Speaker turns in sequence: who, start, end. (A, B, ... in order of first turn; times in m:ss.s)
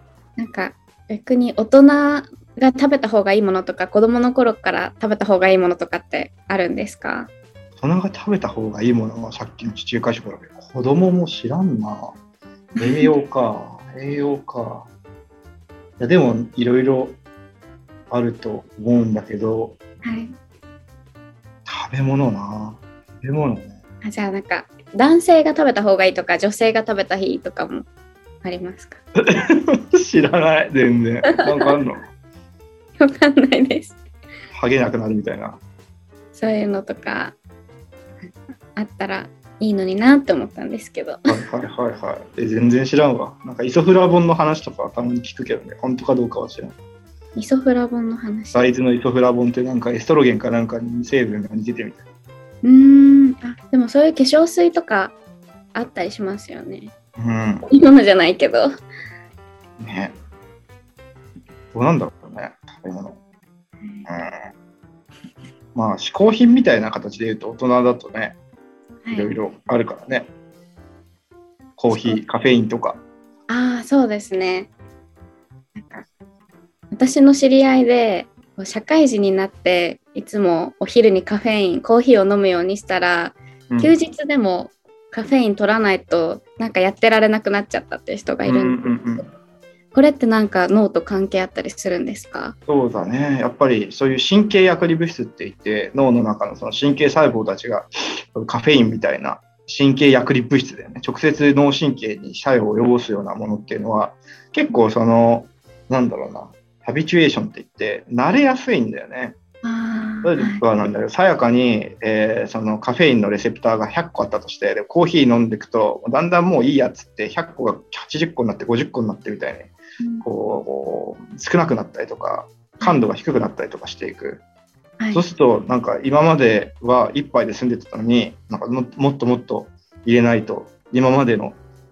0:00.4-0:07.3 A
0:07.8-0:12.2 B
0:12.8-0:13.1 A
0:12.8-0:14.9 B
0:16.0-0:17.2 B
0:18.1-0:19.8 B
0:20.0-0:20.4 A
0:21.7-0:23.8 B
0:24.0-0:27.9 A
0:28.4-0:29.0 A
0:29.2-0:32.0 B
0:33.0-0:34.0 A
0:34.5-0:35.6 B
0:36.4-0:37.4 A
0:38.2-0:41.2 A
0:41.3-0:46.8 B
0:47.4-0:48.7 A
0:48.5-0:52.0 B
0:52.6-0:55.2 A
0:55.7-0:56.9 A
0:57.2-0:57.7 B
0:57.6-0:58.7 A
0:59.8-1:00.1 B
1:01.7-1:03.2 B
1:04.1-1:04.4 B
1:05.8-1:08.4 B
1:09.0-1:09.3 A
1:09.1-1:10.3 B
1:11.8-1:13.0 B
1:11.9-1:12.2 A
1:13.5-1:14.7 A
1:15.8-1:16.1 A
1:16.9-1:29.2 A
1:23.7-1:24.0 B
1:28.5-1:29.3 B
1:29.9-1:32.6 A
1:32.7-1:49.4 B
1:49.6-1:50.6 A
1:50.2-2:04.4 B
2:05.1-2:11.6 B